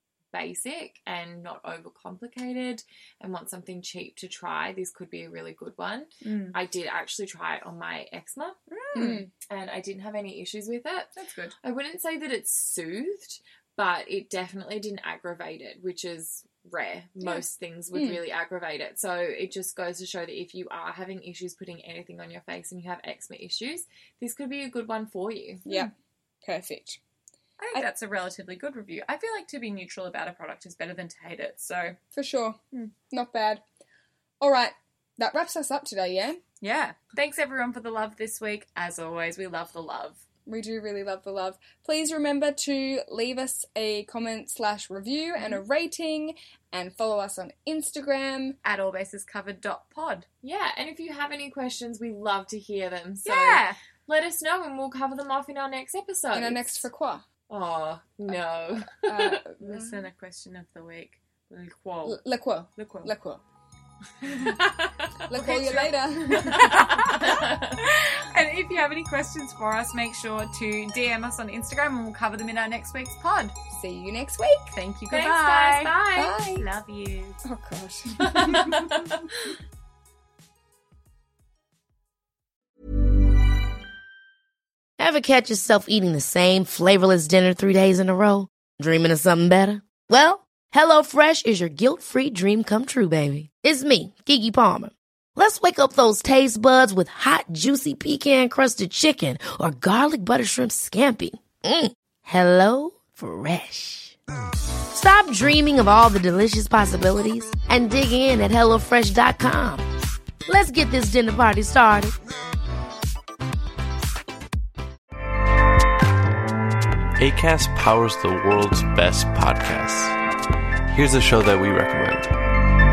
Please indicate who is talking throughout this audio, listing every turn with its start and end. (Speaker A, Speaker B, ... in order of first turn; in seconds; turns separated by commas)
Speaker A: 0.3-8.6, Speaker B: 6.2-6.6, Speaker B: 8.7-9.2, Speaker C: 8.9-9.3, Speaker A: 9.4-25.6, Speaker B: 11.1-11.5, Speaker C: 17.9-18.2, Speaker C: 25.6-25.9, Speaker C: 26.4-27.0, Speaker B: 27.6-32.0, Speaker C: 32.1-32.6, Speaker C: 33.1-33.6, Speaker C: 34.4-36.4, Speaker B: 36.6-40.2, Speaker C: 40.5-48.6, Speaker B: 48.6-50.2, Speaker A: 50.4-56.8, Speaker B: 53.2-53.8, Speaker C: 56.3-57.2, Speaker A: 57.5-59.4, Speaker C: 58.9-60.1, Speaker B: 59.6-62.2, Speaker C: 62.0-63.4, Speaker B: 62.8-63.1, Speaker B: 64.2-73.5, Speaker C: 65.3-66.9, Speaker A: 67.1-67.8, Speaker C: 73.7-74.7, Speaker B: 74.7-75.9, Speaker A: 75.1-77.4, Speaker C: 76.1-76.7, Speaker C: 77.4-78.8, Speaker A: 78.2-79.2, Speaker B: 78.3-78.9, Speaker D: 85.0-104.2, Speaker D: 104.9-109.8, Speaker D: 110.5-112.1, Speaker E: 117.2-120.2, Speaker E: 120.9-122.3